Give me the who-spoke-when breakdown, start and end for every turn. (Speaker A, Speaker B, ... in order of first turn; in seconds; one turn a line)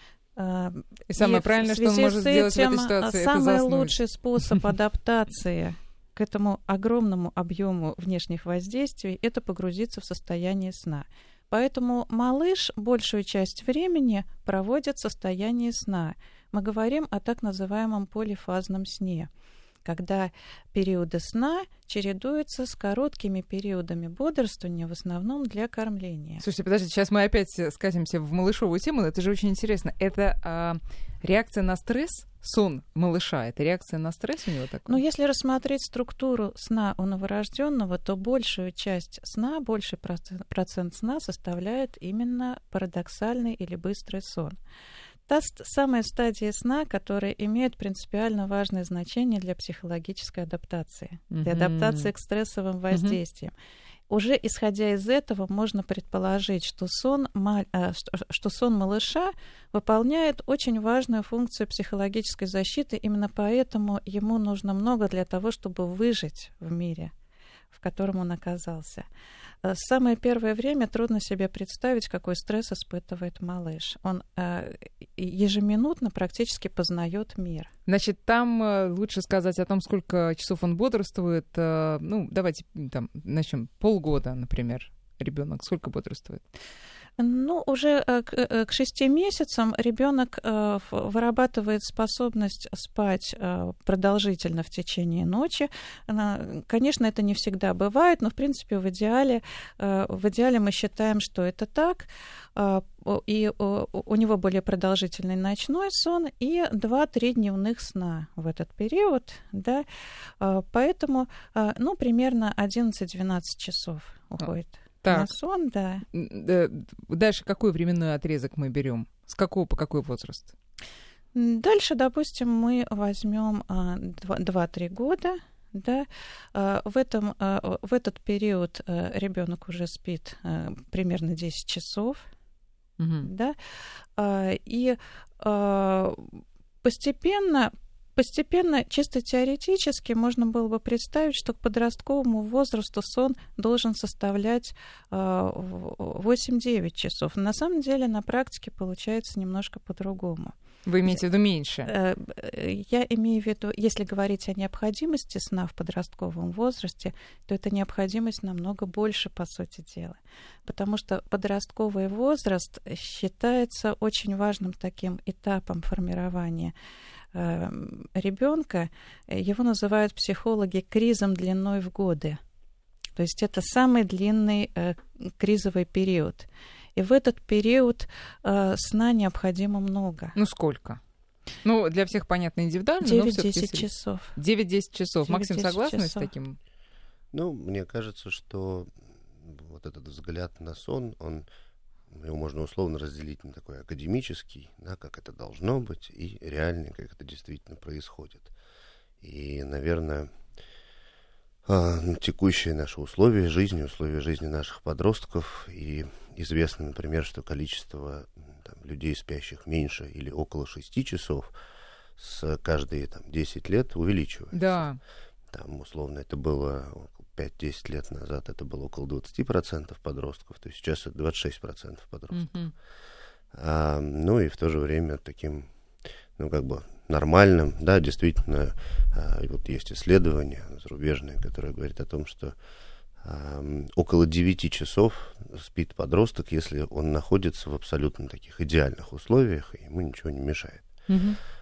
Speaker A: 0.4-19.3
Speaker B: 1.1-4.0
Speaker A: 19.9-26.4
Speaker B: 26.4-35.0
Speaker A: 34.9-44.6
Speaker A: 45.3-53.5
Speaker B: 51.3-52.1
Speaker B: 52.9-53.2
Speaker A: 54.1-67.1
Speaker A: 67.7-69.1
Speaker A: 69.6-77.7
Speaker B: 77.9-86.4
Speaker A: 87.2-109.8
Speaker A: 110.4-116.0
Speaker B: 115.0-115.3
Speaker B: 116.1-120.5
Speaker A: 121.3-132.3
Speaker B: 133.0-133.3
Speaker A: 133.2-133.6
Speaker A: 134.2-136.3
Speaker A: 136.8-150.6
Speaker B: 150.9-151.9
Speaker A: 151.9-166.7
Speaker A: 167.3-172.4
Speaker A: 173.2-180.4
Speaker B: 180.4-181.0
Speaker B: 181.6-186.6
Speaker A: 183.0-184.4
Speaker A: 185.2-186.3
Speaker C: 187.3-191.5
Speaker C: 192.1-198.5
Speaker C: 199.2-200.3
Speaker C: 201.7-211.5
Speaker C: 212.2-214.8
Speaker B: 214.5-215.0
Speaker C: 215.5-222.6
Speaker B: 222.3-222.7
Speaker C: 223.5-225.7
Speaker C: 226.4-232.6
Speaker C: 233.2-240.9
Speaker B: 241.1-241.4